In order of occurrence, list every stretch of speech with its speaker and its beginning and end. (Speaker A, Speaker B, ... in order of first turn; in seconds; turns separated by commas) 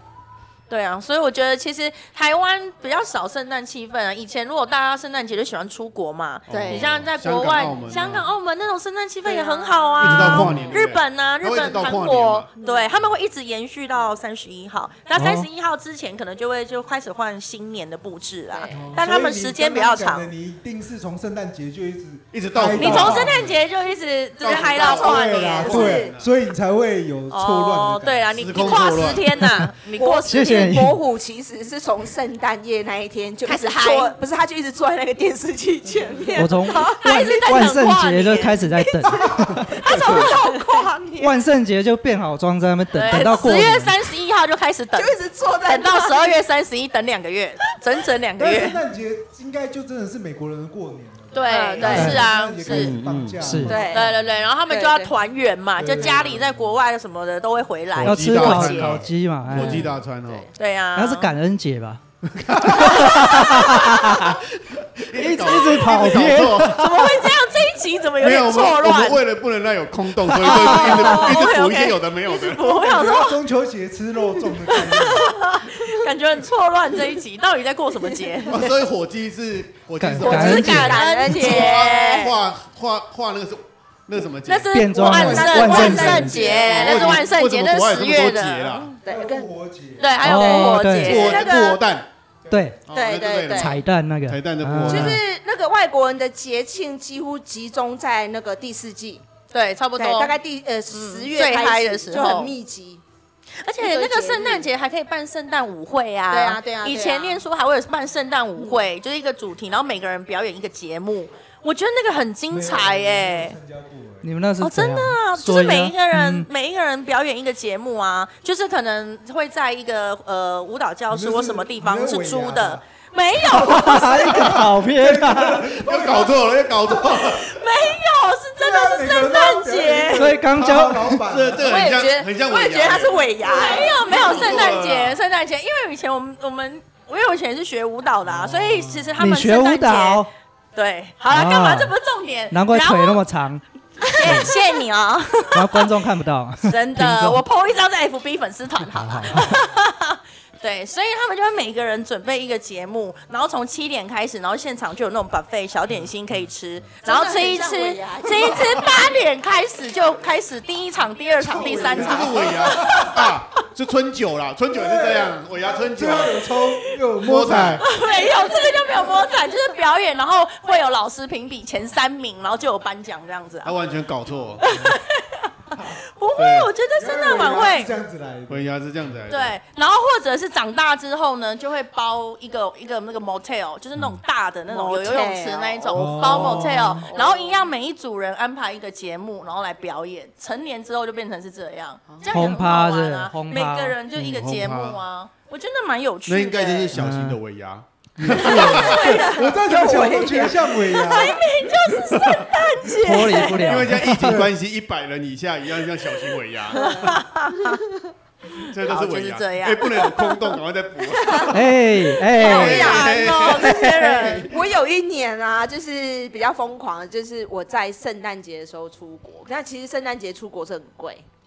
Speaker A: 0.7-20.3, Speaker B: 6.5-8.3, Speaker C: 6.5-6.9, Speaker C: 9.2-10.8, Speaker B: 10.0-12.5, Speaker C: 12.6-12.9, Speaker D: 15.1-15.5, Speaker C: 18.5-18.9, Speaker E: 18.7-23.4, Speaker B: 22.3-23.7, Speaker A: 22.8-26.0, Speaker B: 24.4-25.2, Speaker C: 24.5-26.1, Speaker E: 25.0-28.8, Speaker B: 25.9-26.3, Speaker A: 27.3-30.5, Speaker B: 28.3-29.5, Speaker C: 29.9-37.7, Speaker D: 30.2-31.0, Speaker A: 33.4-34.1, Speaker D: 36.3-39.7, Speaker A: 36.7-38.6, Speaker C: 38.8-41.4, Speaker E: 39.1-40.4, Speaker D: 41.2-44.0, Speaker A: 42.9-48.8, Speaker C: 44.9-46.4, Speaker E: 48.4-54.4, Speaker A: 51.3-53.0, Speaker C: 51.5-52.1, Speaker D: 51.9-52.3, Speaker B: 52.7-53.5, Speaker D: 53.4-53.8, Speaker C: 53.6-54.1, Speaker A: 53.8-59.0, Speaker C: 54.7-55.1, Speaker E: 55.8-56.7, Speaker D: 58.0-59.9, Speaker B: 58.0-60.5, Speaker C: 59.6-60.5, Speaker A: 60.5-61.3, Speaker D: 60.9-62.0, Speaker B: 62.4-64.2, Speaker D: 62.6-64.4, Speaker A: 63.1-63.5, Speaker B: 64.9-66.9, Speaker D: 65.1-66.9, Speaker A: 66.6-69.2, Speaker B: 68.2-72.8, Speaker A: 70.3-73.4, Speaker D: 70.8-71.1, Speaker E: 72.7-75.3, Speaker A: 74.7-78.6, Speaker B: 78.5-84.8, Speaker D: 80.0-81.2, Speaker C: 80.2-82.1, Speaker A: 80.2-82.3, Speaker A: 84.4-88.9, Speaker D: 84.7-86.4, Speaker C: 85.0-87.3, Speaker E: 85.0-87.2, Speaker B: 86.5-89.0, Speaker C: 89.0-89.5, Speaker E: 89.0-90.2, Speaker A: 90.0-91.6, Speaker C: 90.2-91.8, Speaker D: 90.2-91.3, Speaker B: 91.0-92.1, Speaker E: 92.4-92.8, Speaker D: 92.5-92.8, Speaker B: 92.9-95.2, Speaker C: 92.9-93.8, Speaker D: 93.5-95.2, Speaker C: 94.8-99.2, Speaker A: 99.5-100.3, Speaker C: 100.0-103.0, Speaker A: 100.9-102.5, Speaker A: 103.6-113.6, Speaker C: 103.8-104.7, Speaker C: 106.3-107.4, Speaker C: 108.6-108.9, Speaker E: 112.5-114.3, Speaker D: 114.2-116.5, Speaker A: 114.6-124.5, Speaker E: 121.1-122.8, Speaker E: 123.4-127.3, Speaker D: 123.5-125.6, Speaker B: 125.7-127.5, Speaker A: 127.1-130.3, Speaker E: 128.6-131.9, Speaker D: 130.1-131.1, Speaker B: 131.2-135.2, Speaker C: 131.6-134.8, Speaker A: 133.4-143.2, Speaker E: 138.2-139.2, Speaker D: 139.2-140.3, Speaker D: 141.3-141.9, Speaker D: 142.5-144.5, Speaker C: 144.1-144.5, Speaker A: 144.1-145.9, Speaker D: 145.5-147.4, Speaker A: 146.6-163.3, Speaker D: 148.8-149.6, Speaker E: 155.9-156.5, Speaker C: 157.0-159.0, Speaker E: 161.3-163.3, Speaker C: 161.5-162.2, Speaker B: 161.9-166.6, Speaker E: 164.7-167.8, Speaker B: 167.2-167.9, Speaker A: 167.8-173.8, Speaker B: 173.6-174.6, Speaker E: 174.3-175.0, Speaker A: 174.6-177.9, Speaker B: 176.3-176.7, Speaker E: 176.9-179.2, Speaker B: 178.5-179.6, Speaker A: 179.3-196.9, Speaker C: 184.7-187.7, Speaker E: 185.9-187.1, Speaker D: 192.3-194.0, Speaker B: 194.1-195.0, Speaker B: 196.3-199.0, Speaker D: 196.9-197.4, Speaker D: 198.2-198.6, Speaker A: 198.4-199.4, Speaker C: 198.6-201.4, Speaker E: 198.8-201.4, Speaker A: 200.7-204.0, Speaker D: 203.0-204.4, Speaker B: 203.6-206.9, Speaker E: 204.1-204.5, Speaker C: 206.7-208.0, Speaker A: 206.7-207.8, Speaker B: 208.7-211.8, Speaker A: 208.8-210.5, Speaker C: 209.9-210.4, Speaker C: 211.0-211.6, Speaker D: 211.5-213.1, Speaker C: 212.2-221.2, Speaker A: 212.3-214.5, Speaker B: 212.4-214.5, Speaker D: 213.6-214.4